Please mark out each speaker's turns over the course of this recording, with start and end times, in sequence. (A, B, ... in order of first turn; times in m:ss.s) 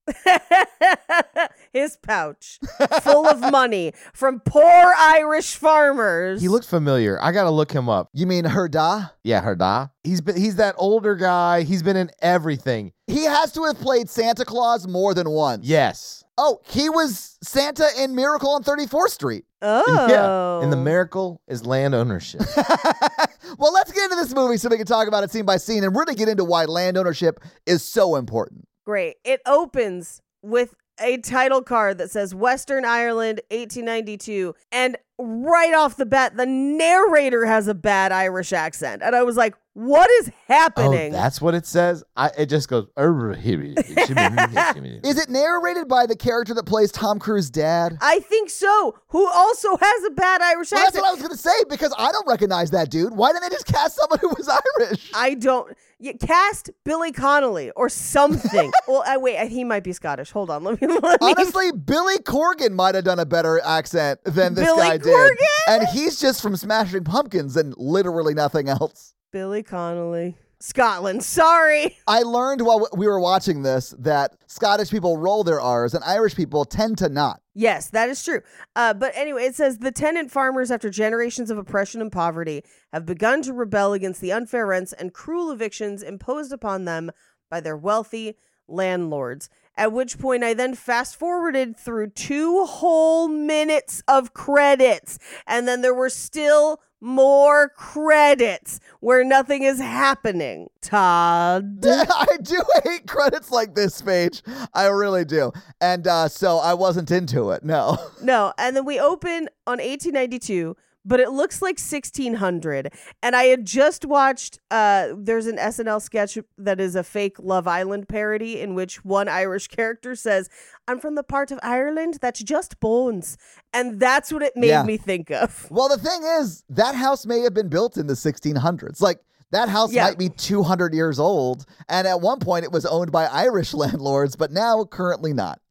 0:00.1-0:06.5 A
0:02.8-0:03.3 B
0:06.4-0:08.1 C
0:08.1-0:09.1 B
0:09.2-0:12.9 C
0:13.1-0:15.7 B
0:15.6-0:16.2 C
0:16.4-0:19.4 B
0:19.6-0:20.9 A
0:19.9-0:22.5 C
0:22.4-0:28.6 B
0:28.9-0:41.2 A
0:40.8-0:45.1 C
0:43.9-0:44.7 A
0:45.0-0:48.0 B
0:48.0-0:51.1 A
0:50.7-0:55.2 B
0:55.1-1:01.6 A
1:01.2-1:09.1 B
1:04.4-1:05.9 A
1:09.3-1:12.0 A
1:12.1-1:17.4 B
1:17.6-1:42.1 A
1:41.8-1:48.1 B
1:48.2-2:05.7 A
2:04.6-2:04.9 B
2:05.7-2:15.6 B
2:09.9-2:10.2 A